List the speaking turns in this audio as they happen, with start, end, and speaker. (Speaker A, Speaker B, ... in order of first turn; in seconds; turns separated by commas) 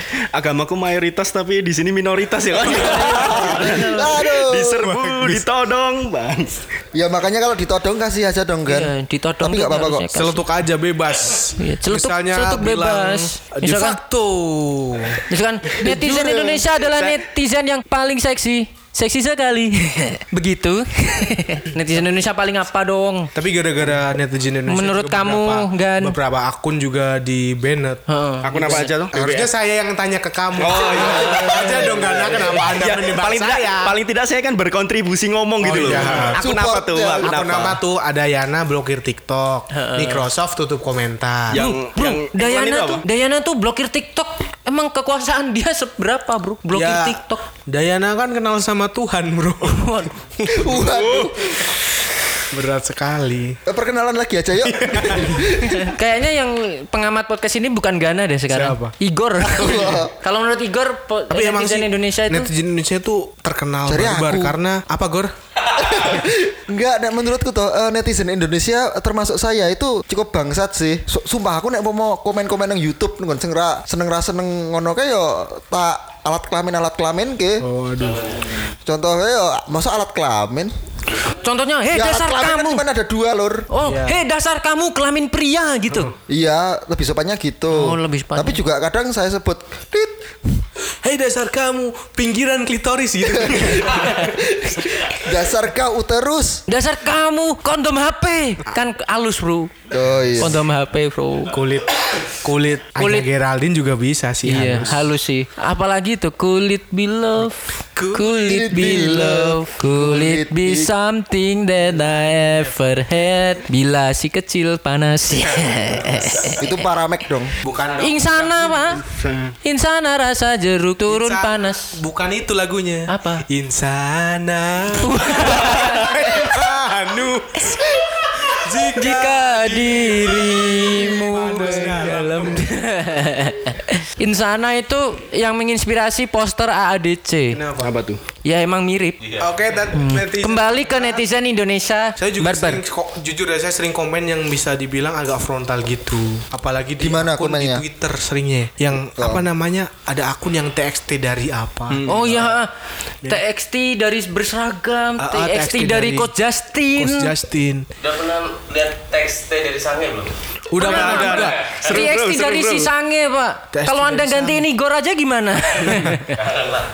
Speaker A: 0.3-6.6, Speaker B: 2.6-4.8, Speaker C: 2.8-4.2, Speaker D: 4.8-5.5, Speaker B: 6.9-10.1, Speaker C: 8.7-10.4, Speaker D: 10.1-15.2, Speaker C: 11.6-14.0, Speaker C: 15.3-23.3, Speaker B: 15.8-16.7, Speaker A: 16.9-17.2, Speaker D: 23.4-28.0, Speaker C: 24.7-26.2, Speaker C: 28.1-28.9, Speaker A: 28.4-29.5, Speaker D: 28.6-34.0, Speaker A: 30.6-37.8, Speaker D: 35.6-41.6, Speaker B: 36.3-37.3, Speaker C: 39.7-40.3, Speaker A: 41.5-43.0, Speaker C: 41.5-47.5, Speaker D: 46.7-50.9, Speaker C: 49.6-50.1, Speaker B: 50.5-51.7, Speaker A: 50.8-51.5, Speaker D: 52.5-53.6, Speaker B: 53.7-55.8, Speaker D: 54.6-55.5, Speaker C: 55.6-62.5, Speaker D: 58.5-58.9, Speaker B: 59.4-60.1, Speaker D: 61.3-65.3, Speaker B: 63.9-64.6, Speaker B: 65.7-77.7, Speaker D: 77.6-78.3, Speaker B: 78.8-80.7, Speaker C: 81.4-82.9, Speaker B: 81.9-83.7, Speaker C: 83.7-86.1, Speaker D: 83.8-84.2, Speaker B: 86.3-90.3, Speaker C: 87.7-88.6, Speaker D: 91.0-94.4, Speaker B: 93.3-93.6, Speaker B: 94.2-96.6, Speaker C: 96.7-99.7, Speaker B: 99.9-100.6, Speaker C: 100.4-101.5, Speaker D: 101.5-105.1, Speaker C: 103.0-103.3, Speaker C: 104.4-116.8, Speaker D: 108.0-108.4, Speaker B: 108.4-110.9, Speaker D: 112.3-112.6, Speaker B: 116.6-117.5, Speaker D: 117.6-119.0, Speaker C: 118.0-119.0, Speaker A: 119.0-119.5, Speaker C: 119.6-122.0, Speaker D: 121.1-132.7, Speaker C: 123.1-123.5, Speaker C: 125.0-126.6, Speaker C: 128.9-137.6, Speaker D: 137.5-137.9, Speaker A: 137.8-138.2, Speaker C: 138.4-139.3, Speaker D: 139.4-141.2, Speaker C: 139.9-142.8, Speaker D: 142.2-152.5, Speaker B: 147.0-147.8, Speaker B: 149.2-149.5, Speaker A: 151.9-152.3, Speaker C: 152.1-152.7, Speaker C: 153.2-157.3, Speaker D: 155.2-156.3, Speaker D: 157.0-157.9, Speaker E: 158.1-160.3, Speaker D: 160.7-161.8, Speaker C: 160.8-166.4, Speaker A: 160.8-162.9, Speaker D: 163.7-164.7, Speaker D: 165.8-166.2